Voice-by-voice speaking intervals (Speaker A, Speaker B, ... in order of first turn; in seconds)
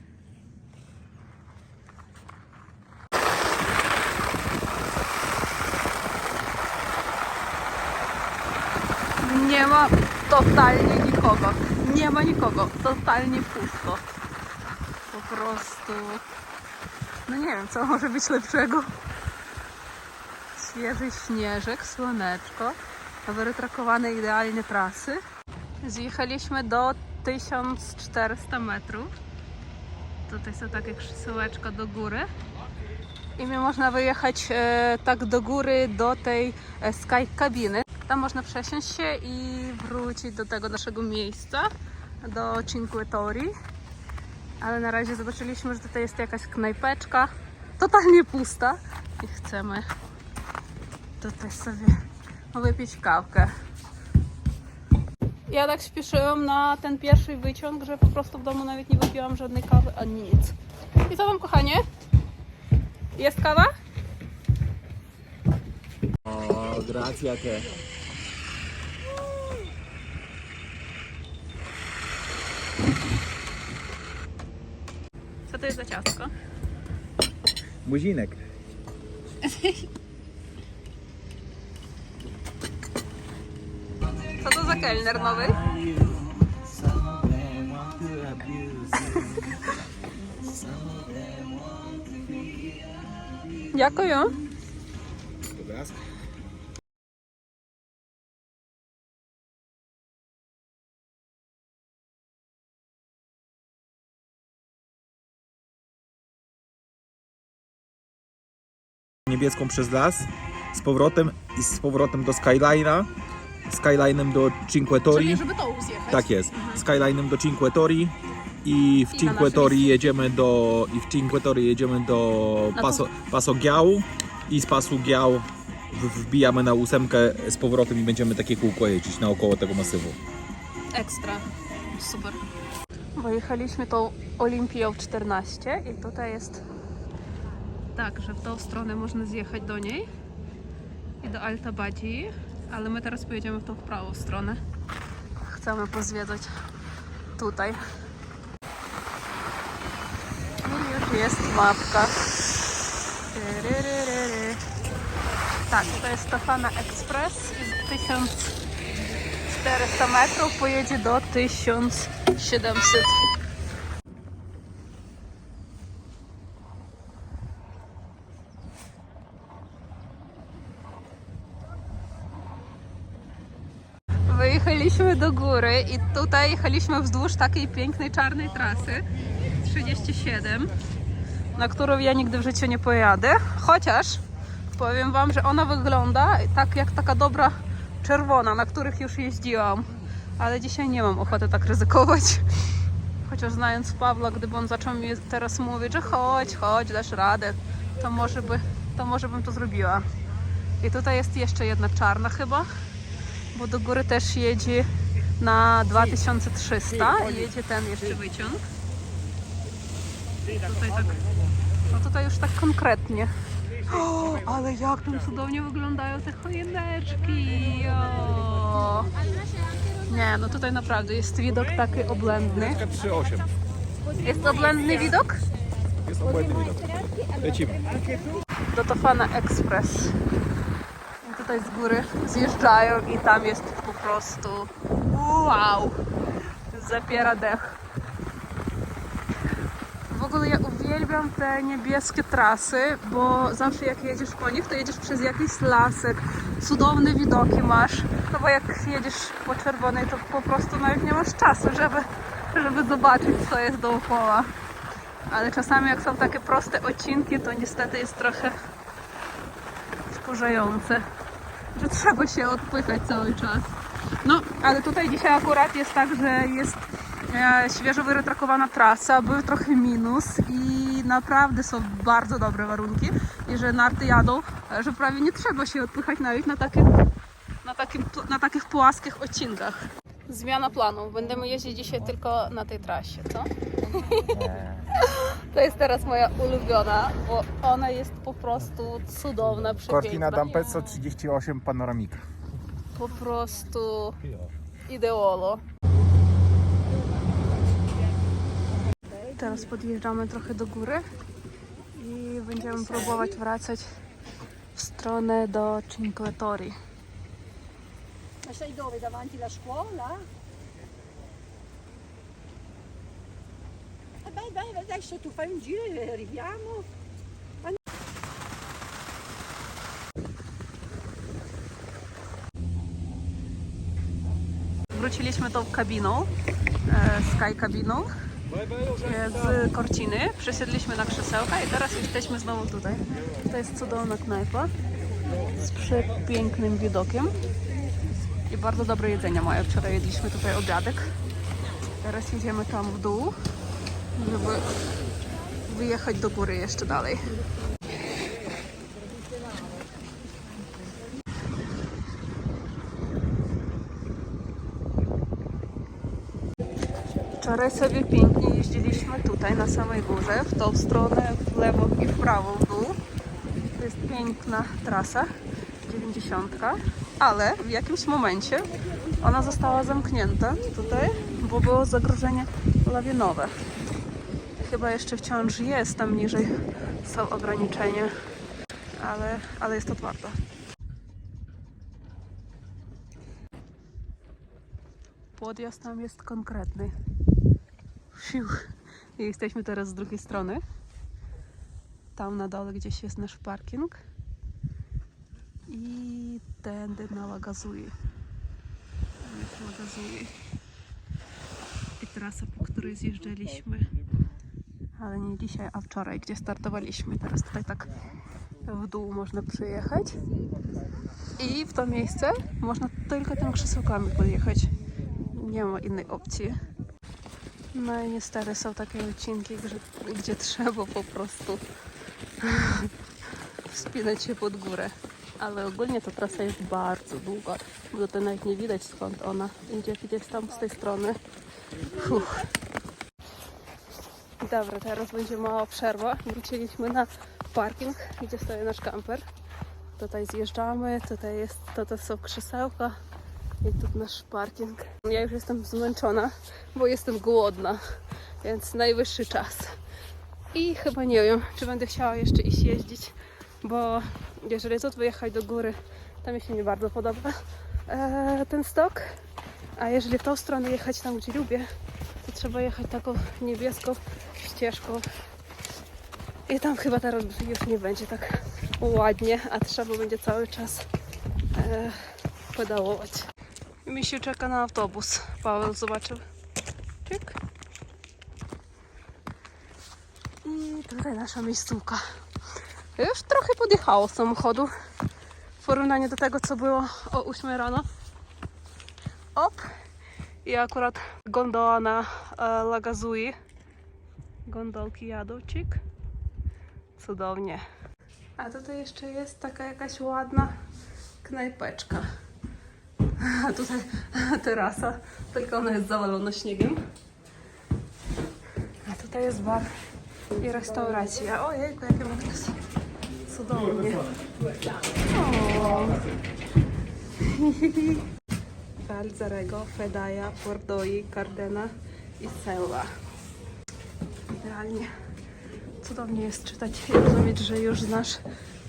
Speaker A: 9.2-14.0, 15.1-16.2, 17.3-18.9, 20.5-25.2, 25.8-29.1, 30.2-32.3, 33.4-41.7, 42.2-43.5, 44.6-49.9, 51.2-51.9, 52.5-53.5, 55.5-61.8, 63.1-63.7, 75.5-76.3, 79.4-79.9, 84.3-85.6, 93.7-94.4, 115.1-116.8, 119.1-120.1, 122.8-123.0, 130.9-132.4, 133.2-136.6, 137.9-140.1, 141.2-144.6, 145.5-146.5, 147.4-147.8, 150.6-152.2, 153.3-154.6, 155.7-158.6, 159.5-163.2, 174.3-180.7, 181.5-184.2, 184.7-200.1, 200.8-202.7, 203.5-204.9, 205.4-208.6, 210.5-211.2, 211.8-213.3, 213.9-219.1, 219.9-222.8, 224.2-225.4, 228.7-230.2, 231.2-235.9, 236.7-237.8, 240.1-254.5, 255.3-258.6, 260.1-261.0, 261.8-263.7, 264.2-276.9, 277.6-290.7, 292.9-294.2, 294.9-295.6, 299.2-301.0, 301.9-303.9, 304.8-306.8, 324.9-326.3, 326.9-328.1, 328.9-334.7, 335.4-337.3, 338.5-341.1, 342.0-343.4, 344.1-344.7, 345.7-347.4, 357.4-363.0, 363.7-365.3, 365.9-373.5, 374.6-376.5, 377.0-378.1, 379.0-380.4, 385.4-386.9, 388.1-390.6, 392.1-394.0, 395.7-397.9, 399.2-400.3, 402.0-403.9, 405.0-407.9, 408.6-410.2, 411.4-416.6, 417.7-421.6, 422.4-422.9, 423.6-431.2, 431.8-432.5, 434.4-439.2, 440.0-443.0, 443.6-447.8, 448.4-449.8, 450.5-459.2, 459.8-461.7, 462.2-465.1, 466.5-470.9, 471.5-473.3, 473.9-476.2, 477.0-477.4, 480.4-482.0, 483.0-484.7, 485.6-487.9, 489.4-489.7, 490.4-493.4, 494.5-495.8, 497.0-497.6, 498.4-500.5, 501.2-502.1, 503.2-506.8, 508.9-509.7, 510.4-512.5, 513.3-514.1, 515.1-516.1, 517.2-518.1, 518.8-522.9, 524.3-524.9, 525.8-528.2
Speaker B: 66.2-67.7, 77.8-78.4, 85.4-89.7, 90.5-92.6, 95.5-96.0, 109.3-113.1, 113.7-115.4, 116.1-130.2, 222.6-223.5, 226.0-228.0, 284.3-284.9, 289.8-292.2
Speaker C: 308.4-310.2, 314.2-316.9